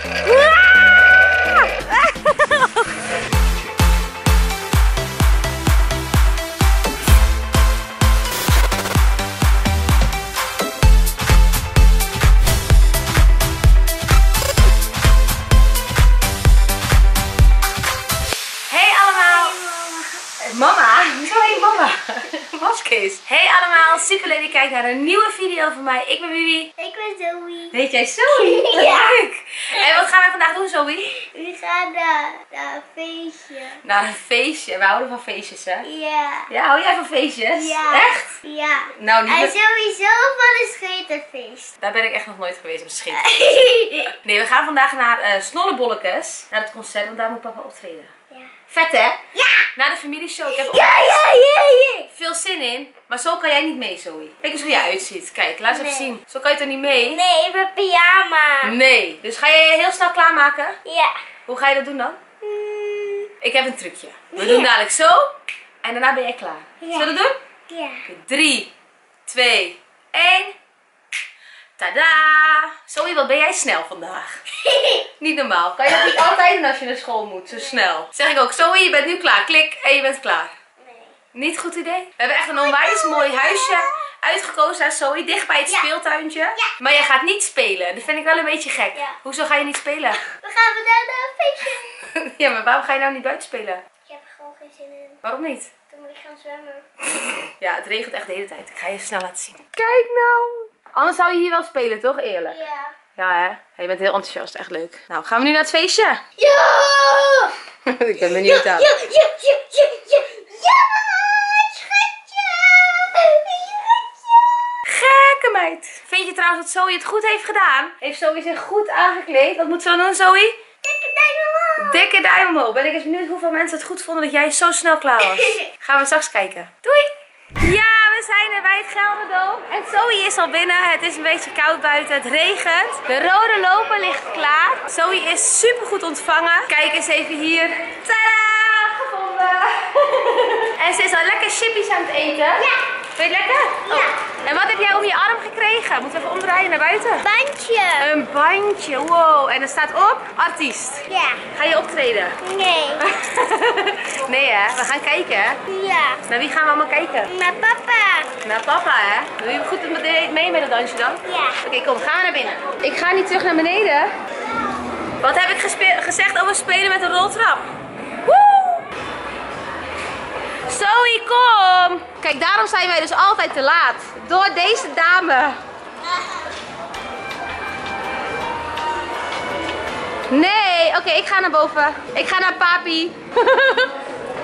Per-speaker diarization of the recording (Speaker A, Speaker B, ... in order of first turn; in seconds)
Speaker A: 0.2-2.9, 18.7-19.6, 20.4-26.7, 27.7-31.2, 33.8-35.9, 36.5-38.4, 39.0-39.5, 41.8-43.4, 44.2-48.1, 48.7-49.2, 49.8-51.1, 52.1-57.2, 58.6-60.8, 61.5-62.2, 63.4-65.3, 65.8-67.4, 68.1-68.7, 69.3-70.5, 71.8-74.3, 75.2-80.5, 81.3-90.3, 92.0-93.8, 95.2-95.7, 97.6-102.6, 103.2-106.2, 107.9-108.9, 114.8-120.6, 121.8-147.3, 148.0-152.4, 153.0-155.6, 156.3-157.3, 158.4-164.1, 165.2-167.7, 168.3-168.8, 170.7-175.6, 180.3-183.9
Speaker B: 19.0-20.2, 26.8-27.8, 28.3-29.2, 31.1-33.8, 35.8-36.5, 37.6-41.7, 43.1-44.1, 49.4-49.7, 50.5-52.1, 55.7-56.1, 56.9-58.7, 60.9-61.2, 62.4-63.3, 64.3-64.7, 66.8-68.0, 74.6-75.0, 80.8-81.1, 82.6-83.9, 90.3-92.0, 94.1-95.2, 95.9-96.9, 102.5-103.0, 106.4-107.5, 108.2-114.4, 120.8-122.1, 125.2-125.7, 142.6-142.9, 143.9-144.1, 147.2-148.1, 151.1-151.4, 152.4-153.1, 155.7-156.2, 157.3-158.3, 161.3-161.6